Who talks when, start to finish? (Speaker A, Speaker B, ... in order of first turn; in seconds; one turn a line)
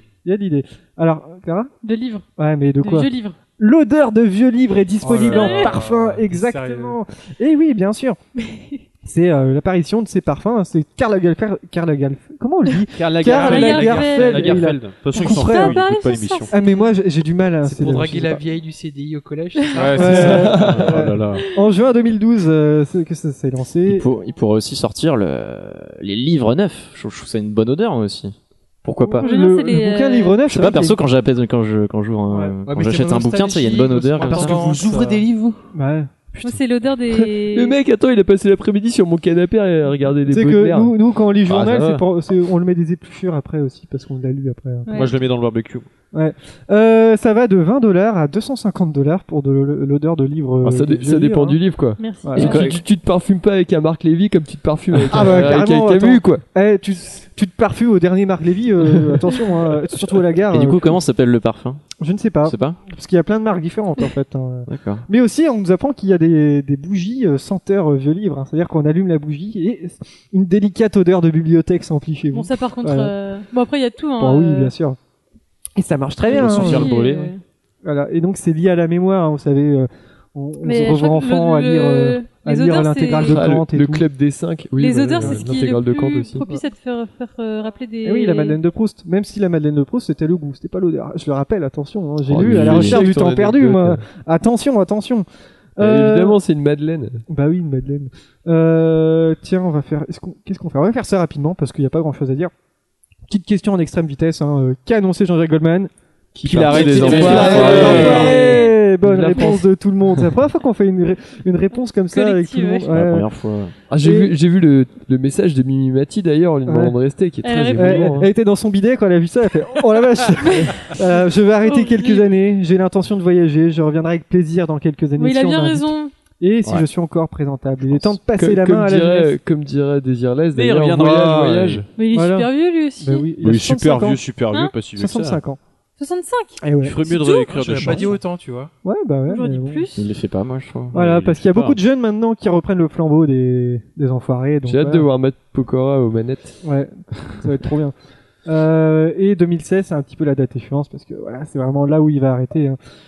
Speaker A: 0.2-1.7
Speaker B: 1.8-2.2
Speaker A: 2.4-8.2
Speaker B: 2.8-3.4
Speaker C: 5.0-7.0
Speaker B: 5.2-5.8
Speaker B: 8.4-8.8
Speaker A: 9.0-15.8
Speaker D: 13.0-16.5
Speaker B: 13.3-14.6
Speaker B: 15.2-17.0
Speaker A: 16.5-18.4
Speaker C: 17.6-20.6
Speaker B: 19.6-19.8
Speaker D: 19.7-21.4
Speaker A: 19.9-24.1
Speaker E: 20.1-20.9
Speaker F: 23.9-29.3
Speaker A: 29.0-31.0
Speaker B: 29.2-30.4
Speaker F: 30.5-34.8
Speaker C: 32.6-35.3
Speaker D: 34.2-35.6
Speaker A: 35.7-36.1
Speaker B: 36.4-37.8
Speaker E: 37.1-40.9
Speaker A: 40.3-45.1
Speaker D: 41.5-42.0
Speaker B: 44.9-45.2
Speaker D: 44.9-45.9
Speaker A: 46.1-51.6
Speaker E: 50.6-56.4
Speaker B: 52.0-52.8
Speaker A: 52.2-52.8
Speaker A: 55.1-61.0
Speaker F: 60.5-61.8
Speaker A: 62.0-73.1
Speaker F: 62.4-62.8
Speaker F: 64.7-65.1
Speaker B: 72.3-74.7
Speaker A: 74.2-75.0
Speaker A: 75.8-77.0
Speaker D: 76.3-77.3
Speaker B: 76.3-77.4
Speaker A: 77.8-84.0
Speaker B: 80.6-83.5
Speaker E: 83.2-86.5
Speaker B: 84.8-88.6
Speaker A: 88.0-95.3
Speaker E: 92.3-94.0
Speaker F: 92.3-93.0
Speaker A: 95.8-96.4
Speaker E: 95.8-97.2
Speaker A: 97.3-102.5
Speaker A: 103.3-105.9
Speaker E: 106.3-109.7
Speaker D: 106.4-108.4
Speaker A: 106.8-113.3
Speaker F: 107.1-107.4
Speaker B: 107.2-108.8
Speaker B: 112.1-113.0
Speaker F: 112.9-113.7
Speaker E: 113.9-118.3
Speaker A: 114.0-114.3
Speaker A: 116.7-117.0
Speaker B: 117.4-118.2
Speaker A: 117.8-129.4
Speaker B: 120.4-121.0
Speaker B: 121.6-122.3
Speaker B: 125.2-126.1
Speaker E: 128.0-131.9
Speaker D: 130.5-131.9
Speaker B: 132.0-133.3
Speaker A: 132.1-134.2
Speaker D: 133.4-135.4
Speaker A: 135.0-135.6
Speaker B: 136.0-137.4
Speaker A: 136.6-137.0
Speaker D: 136.8-138.2
Speaker C: 137.3-138.7
Speaker A: 138.8-139.8
Speaker B: 139.3-140.1
Speaker F: 139.9-141.0
Speaker A: 140.9-145.1
Speaker D: 140.9-141.8
Speaker E: 144.7-146.6
Speaker A: 146.6-147.9
Speaker A: 148.5-152.8